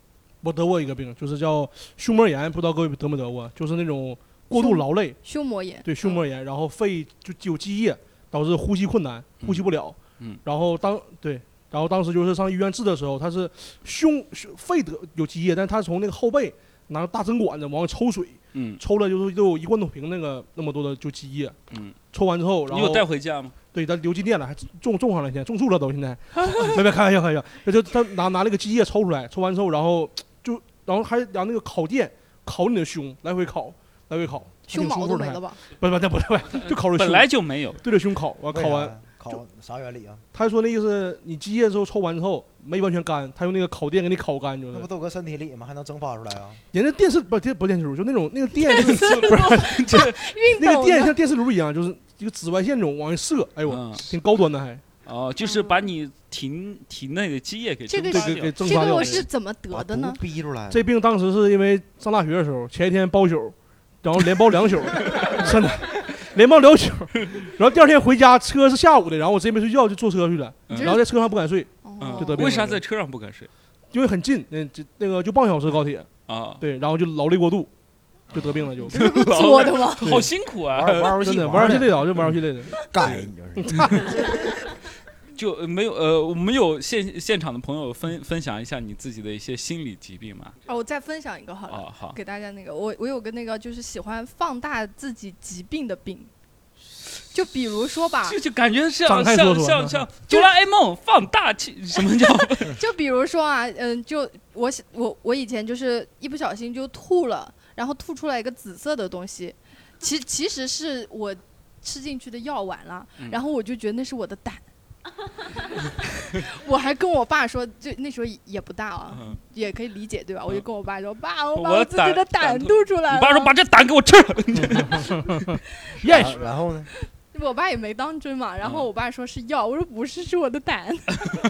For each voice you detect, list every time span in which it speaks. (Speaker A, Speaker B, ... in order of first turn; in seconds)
Speaker A: 0.4-5.2, 5.8-21.6, 22.1-23.1, 23.7-37.3, 37.8-39.0, 40.3-44.9, 46.7-50.0, 50.6-54.8, 58.1-59.3, 60.7-72.8, 73.9-76.1, 76.6-77.7, 78.3-79.0, 80.0-80.3, 81.2-82.7, 83.6-84.2, 99.0-100.0, 124.5-126.3
Speaker B: 4.5-6.2, 34.7-35.6, 48.6-51.2, 55.4-55.9, 57.9-60.2, 70.7-71.1, 71.8-72.7, 78.9-80.2, 90.7-96.3, 97.3-98.4, 102.6-114.7, 116.2-123.5, 127.3-131.3
Speaker C: 9.4-10.4, 18.5-18.8, 21.7-22.0, 22.7-23.5, 36.9-37.8, 48.8-50.2, 53.6-54.1, 55.0-59.2, 70.7-71.0, 72.0-73.5, 76.3-76.6, 78.9-81.2, 85.4-90.5, 91.7-92.2, 98.2-102.8, 119.1-119.4, 121.5-125.3, 128.6-128.9
Speaker D: 38.5-40.2, 44.7-46.6, 59.7-60.8, 80.7-82.3, 82.9-84.3, 126.0-126.9